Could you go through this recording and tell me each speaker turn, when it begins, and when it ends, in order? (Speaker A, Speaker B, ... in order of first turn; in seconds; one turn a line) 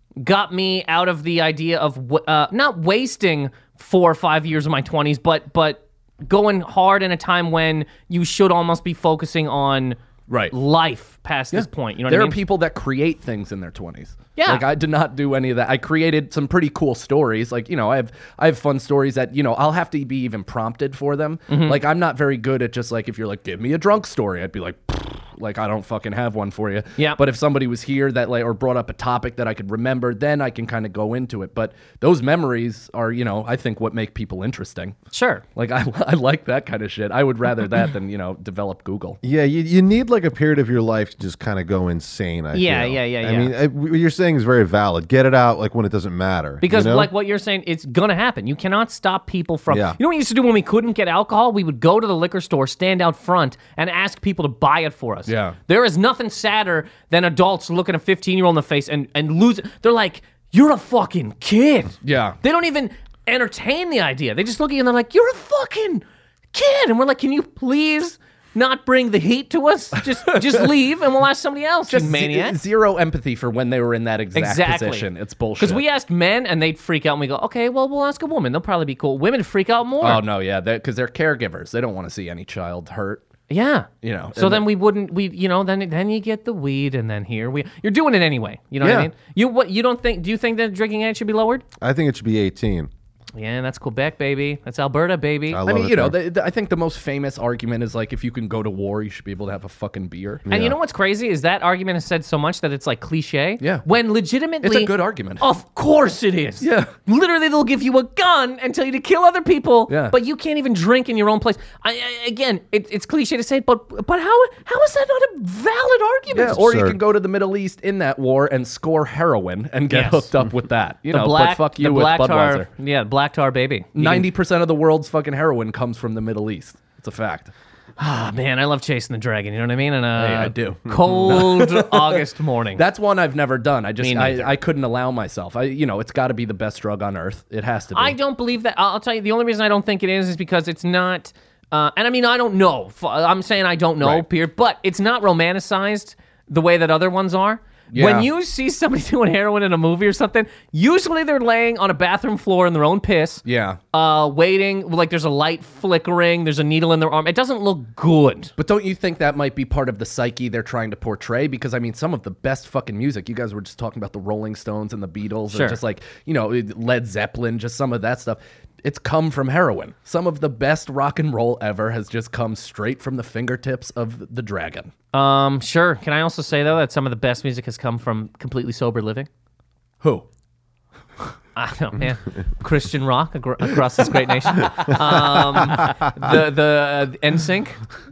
Speaker A: 0.2-10.0
Speaker B: 10.3-10.5
Speaker A: 10.5-12.4
Speaker B: 11.5-35.0
Speaker A: 14.3-14.6
Speaker A: 21.5-21.8
Speaker A: 35.1-35.4
Speaker B: 35.5-39.2
Speaker C: 39.2-47.1
Speaker A: 42.5-43.5
Speaker A: 46.6-72.6
Speaker C: 49.7-50.0
Speaker B: 55.3-55.5
Speaker B: 62.0-62.3
Speaker B: 70.2-70.6
Speaker B: 71.9-75.8
Speaker A: 74.3-75.1
Speaker A: 75.6-80.2
Speaker B: 80.0-83.2
Speaker A: 83.5-91.6
Speaker B: 84.0-84.7
Speaker B: 88.8-89.1
Speaker C: 91.8-92.9
Speaker A: 93.3-95.6
Speaker C: 95.5-96.2
Speaker B: 95.6-100.5
Speaker C: 100.5-100.8
Speaker A: 100.5-116.6
Speaker B: 104.6-105.4
Speaker B: 106.6-106.9
Speaker B: 109.9-110.1
Speaker B: 116.3-122.7
Speaker C: 116.5-117.0
Speaker A: 119.9-120.3
Speaker A: 121.1-124.3
Speaker B: 124.0-127.5
Speaker A: 128.0-132.8
Speaker B: 130.2-132.2
Speaker B: 132.8-138.1
Speaker A: 134.0-134.5
Speaker A: 137.9-158.5
Speaker B: 144.0-144.2
Speaker B: 147.9-148.3
Speaker B: 153.4-153.8
Speaker B: 158.6-174.9
Speaker A: 165.5-165.8
Speaker A: 175.1-179.3
Speaker A: 181.6-187.8
Speaker B: 184.8-185.7